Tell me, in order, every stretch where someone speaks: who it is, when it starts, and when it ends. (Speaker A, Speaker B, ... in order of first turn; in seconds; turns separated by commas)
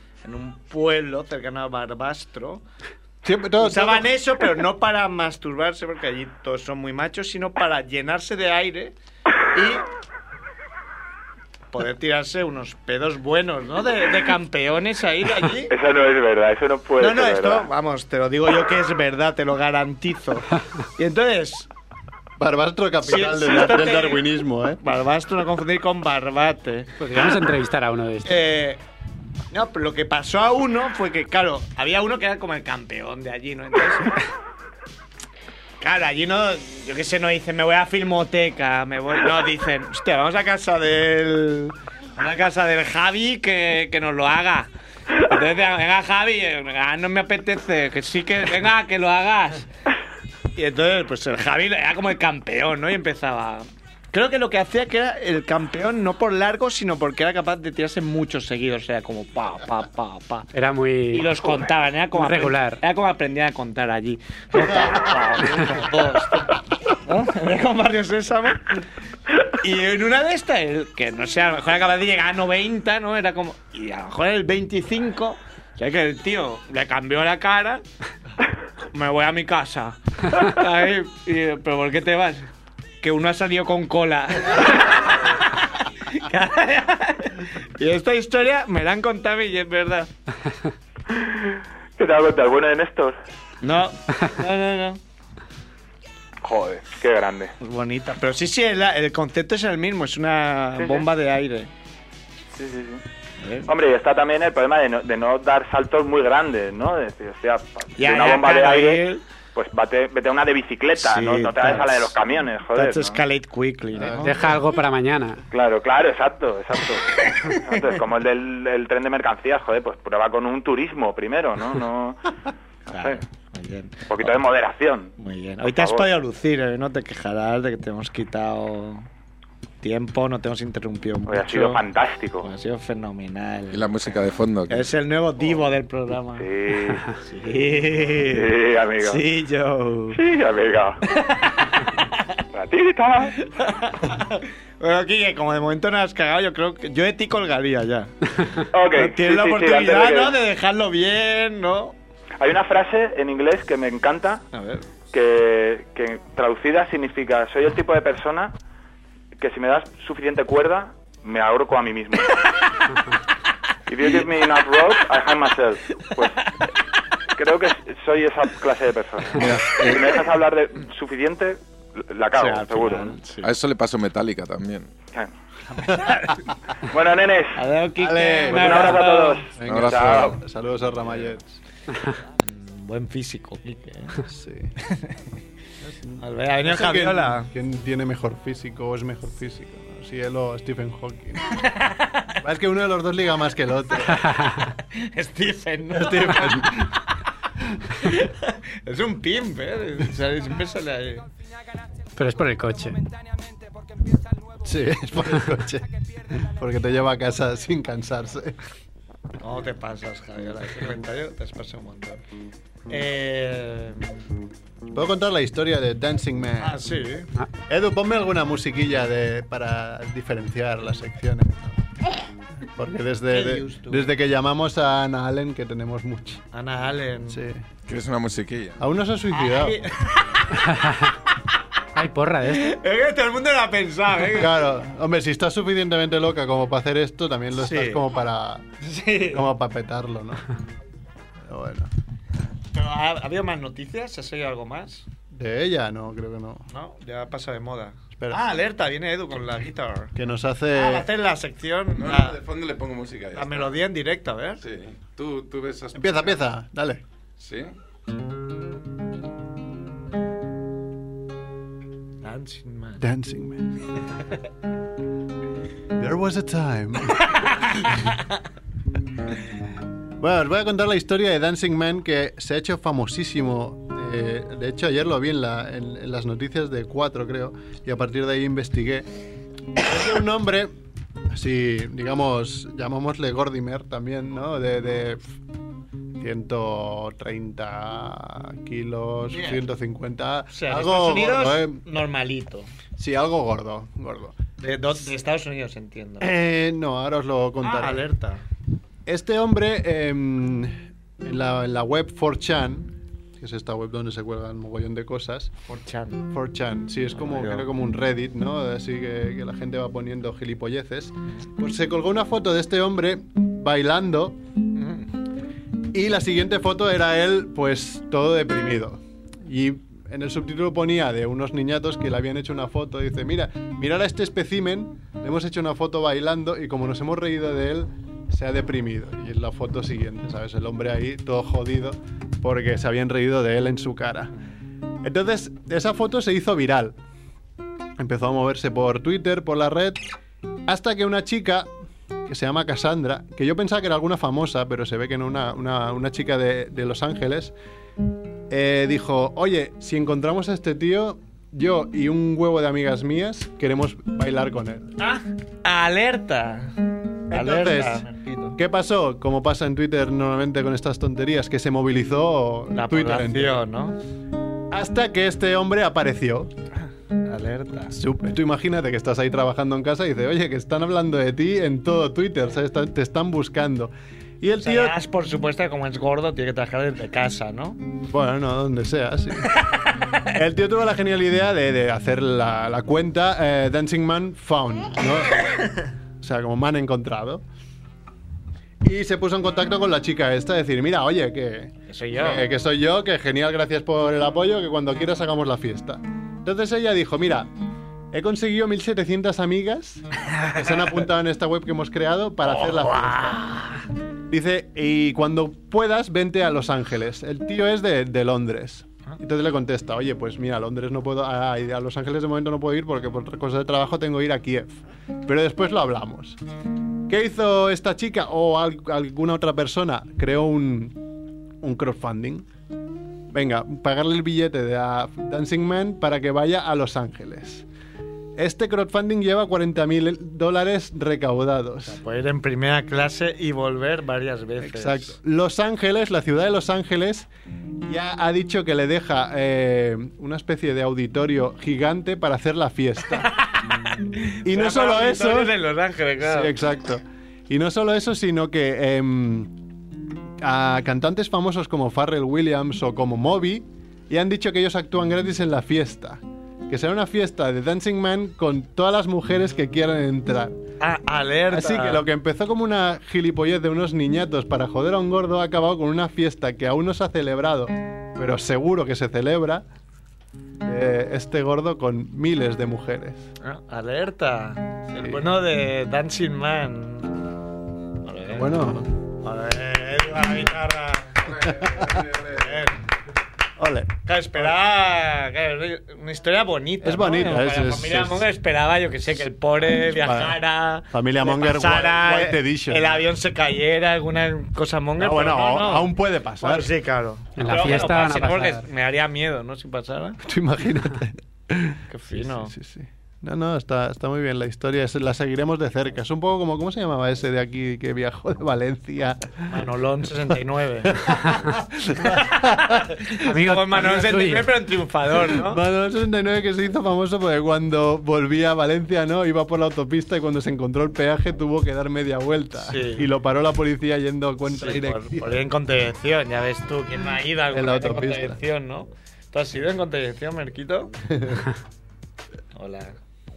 Speaker A: 0.2-2.6, Speaker B: 3.2-4.1, Speaker A: 3.6-8.9, Speaker A: 9.5-9.8, Speaker A: 11.7-15.7, Speaker C: 15.7-17.7, Speaker A: 17.0-21.7, Speaker B: 22.4-24.8, Speaker A: 23.0-24.2, Speaker A: 24.8-27.3, Speaker D: 27.0-28.4, Speaker A: 28.2-28.8, Speaker A: 29.5-34.2, Speaker A: 35.8-49.7, Speaker A: 50.5-60.5, Speaker D: 60.5-62.8, Speaker A: 61.1-68.8, Speaker A: 69.4-77.8, Speaker A: 78.9-82.5, Speaker A: 83.0-90.1, Speaker C: 91.1-93.2, Speaker A: 93.6-95.0, Speaker C: 96.4-97.5, Speaker A: 97.6-101.7, Speaker C: 100.8-101.0, Speaker C: 102.5-103.0, Speaker A: 103.4-103.7, Speaker C: 103.7-113.2, Speaker A: 108.0-109.2, Speaker A: 111.0-112.1, Speaker A: 112.7-114.5, Speaker B: 114.0-114.6, Speaker D: 114.2-115.4, Speaker C: 115.5-122.3, Speaker A: 122.9-124.3, Speaker C: 122.9-123.2, Speaker C: 124.1-125.1, Speaker A: 125.2-129.1, Speaker C: 125.6-126.1, Speaker A: 129.8-131.8, Speaker C: 131.3-132.5, Speaker A: 132.4-133.9, Speaker E: 133.7-134.9, Speaker A: 134.7-136.5, Speaker C: 136.4-137.0, Speaker A: 137.1-140.2, Speaker C: 138.1-139.2, Speaker C: 140.1-141.0, Speaker A: 141.1-142.2, Speaker C: 142.5-143.4, Speaker A: 143.4-148.1, Speaker C: 148.7-150.4, Speaker A: 148.9-151.9, Speaker C: 152.4-154.4, Speaker A: 154.5-154.9, Speaker C: 155.1-158.5, Speaker C: 159.4-162.4, Speaker C: 163.9-166.5, Speaker C: 167.3-173.1, Speaker B: 169.3-170.0, Speaker A: 172.3-173.5, Speaker E: 173.4-174.9, Speaker A: 175.9-176.3, Speaker C: 176.9-177.6, Speaker A: 177.5-179.4, Speaker B: 178.0-179.0, Speaker C: 178.5-180.4, Speaker B: 179.6-181.6, Speaker E: 179.7-180.4, Speaker A: 182.4-184.2, Speaker B: 184.2-184.7, Speaker A: 184.8-185.2, Speaker B: 185.8-191.5, Speaker A: 186.2-187.5, Speaker A: 191.5-192.3, Speaker B: 192.4-194.3, Speaker A: 194.9-196.8, Speaker B: 195.9-196.9, Speaker A: 198.0-201.2, Speaker D: 202.2-203.0, Speaker B: 204.6-208.6, Speaker A: 209.4-212.2, Speaker A: 212.9-214.2, Speaker B: 214.9-216.8, Speaker A: 216.6-217.3, Speaker B: 217.7-221.8, Speaker B: 222.7-226.4, Speaker A: 223.3-224.1, Speaker A: 226.5-227.4, Speaker B: 227.3-227.6, Speaker E: 227.8-228.8, Speaker B: 228.8-229.8, Speaker A: 229.3-230.4, Speaker D: 230.6-231.1, Speaker D: 231.9-232.7, Speaker A: 232.5-234.6, Speaker B: 234.3-238.7, Speaker A: 237.6-238.0, Speaker A: 238.8-239.4, Speaker B: 239.2-240.4, Speaker B: 241.4-241.9, Speaker A: 242.7-245.1, Speaker B: 245.3-246.7, Speaker A: 246.7-250.1, Speaker B: 250.1-251.1, Speaker A: 250.7-252.4, Speaker E: 251.9-253.8, Speaker A: 253.3-254.6, Speaker E: 254.6-256.4, Speaker B: 255.9-257.0, Speaker E: 257.4-257.7, Speaker A: 262.2-263.0, Speaker B: 263.0-263.8, Speaker B: 265.9-267.4, Speaker B: 270.2-279.1, Speaker B: 279.8-280.7, Speaker B: 281.3-285.4, Speaker B: 286.2-291.8, Speaker A: 289.3-289.6, Speaker A: 290.5-292.7, Speaker B: 293.0-294.4, Speaker A: 294.6-296.3, Speaker B: 296.2-298.1, Speaker A: 297.6-298.4, Speaker B: 299.1-305.5, Speaker A: 305.7-306.3, Speaker B: 306.3-314.4, Speaker A: 307.1-307.7, Speaker A: 314.7-315.1, Speaker B: 315.9-334.3, Speaker B: 335.0-337.0, Speaker B: 338.0-340.0, Speaker B: 340.7-341.7, Speaker B: 342.2-347.5, Speaker B: 348.5-354.9, Speaker A: 355.0-356.8, Speaker A: 357.3-358.6, Speaker B: 357.3-363.6, Speaker A: 362.7-364.0, Speaker B: 364.7-366.5, Speaker A: 367.2-367.9, Speaker B: 367.9-375.0, Speaker A: 374.6-377.8, Speaker B: 378.1-379.5, Speaker B: 380.3-385.4, Speaker B: 386.2-387.4, Speaker B: 388.8-397.5, Speaker A: 391.9-392.4, Speaker B: 398.1-403.5, Speaker A: 402.5-403.8, Speaker B: 404.3-416.4, Speaker B: 417.1-421.0, Speaker B: 421.6-422.4, Speaker B: 423.3-427.6, Speaker B: 428.4-432.0, Speaker A: 431.9-435.1, Speaker B: 434.6-437.3, Speaker B: 437.8-443.3, Speaker A: 443.3-446.5, Speaker B: 444.4-445.5, Speaker B: 446.2-449.5, Speaker B: 450.4-460.6, Speaker A: 460.8-462.0, Speaker B: 461.5-469.6, Speaker B: 470.6-473.3, Speaker A: 473.4-477.3, Speaker A: 478.0-478.6, Speaker B: 478.3-478.9, Speaker A: 479.2-482.8, Speaker B: 481.4-482.0, Speaker E: 481.5-482.2, Speaker B: 483.6-483.9, Speaker A: 484.1-500.2, Speaker B: 486.8-488.2, Speaker B: 489.8-490.4, Speaker B: 490.9-493.0, Speaker B: 495.0-496.7, Speaker D: 497.4-498.6, Speaker B: 500.2-509.5, Speaker A: 501.9-502.5, Speaker A: 509.5-511.1, Speaker B: 510.9-512.8, Speaker A: 512.0-515.6, Speaker D: 513.2-514.5, Speaker B: 515.2-525.3, Speaker A: 522.6-523.1, Speaker A: 524.5-530.9, Speaker B: 527.5-528.4, Speaker B: 531.1-531.4, Speaker A: 532.5-533.0